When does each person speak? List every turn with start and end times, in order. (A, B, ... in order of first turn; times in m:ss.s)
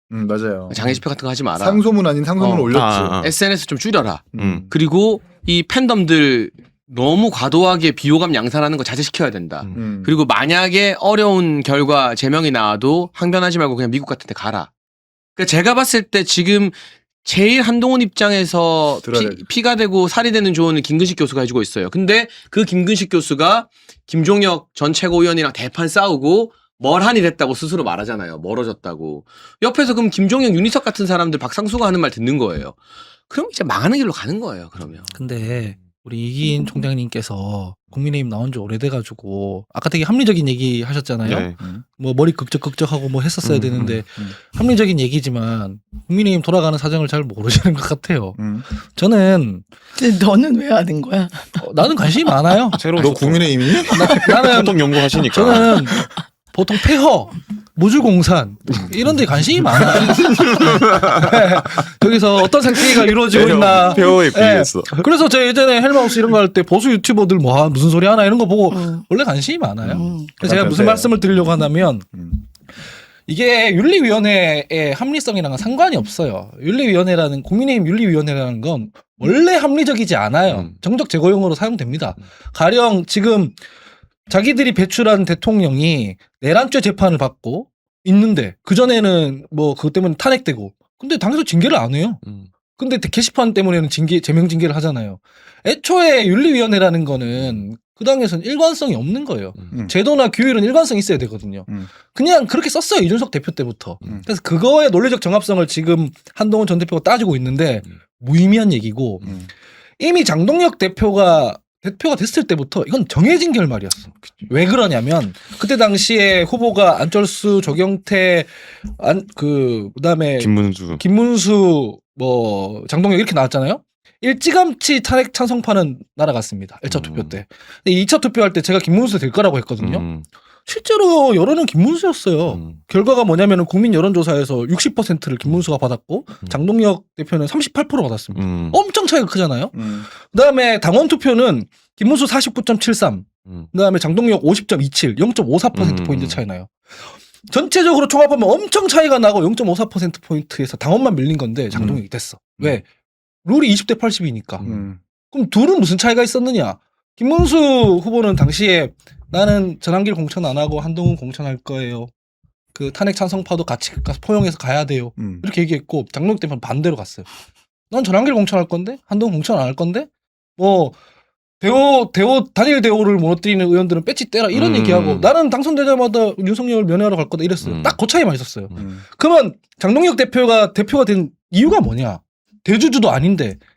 0:00.1-0:00.9 A
0:00.7-0:14.7 B
0:01.6-0:03.2 A
0:02.7-0:03.4 C
0:04.3-0:04.7 A
0:04.4-0:04.7 C
0:09.7-0:10.2 A
0:15.4-0:32.8 B
0:19.0-0:19.4 A
0:33.3-0:35.1 B
0:35.1-0:49.6 D
0:41.2-0:41.6 C
0:43.4-0:44.0 C
0:48.4-0:48.7 A
0:50.0-0:51.6 E
0:51.6-0:52.8 D
0:52.8-0:55.9 C
0:53.0-0:54.2 A
0:53.9-1:12.1 D
1:00.0-1:01.3 C
1:03.2-1:05.1 C
1:08.7-1:09.0 E
1:09.9-1:10.3 E
1:09.9-1:11.3 A
1:13.3-1:23.6 D
1:20.5-1:20.8 C
1:24.3-1:32.2 D
1:32.2-1:32.5 C
1:32.8-1:49.3 D
1:50.0-2:10.0 D
2:00.4-2:01.0 C
2:06.9-2:07.4 C
2:09.8-2:10.2 C
2:10.7-2:32.8 D
2:12.5-2:12.8 C
2:18.3-2:18.8 C
2:19.7-2:20.1 A
2:25.7-2:26.4 C
2:31.8-2:32.0 A
2:33.4-2:34.7 D
2:34.6-2:34.9 C
2:34.6-2:35.0 A
2:35.3-2:42.1 D
2:42.7-2:47.3 D
2:45.2-2:45.5 A
2:47.9-2:51.0 D
2:51.6-3:03.6 D
2:54.5-2:55.3 C
2:57.6-2:58.0 C
2:58.8-2:59.0 A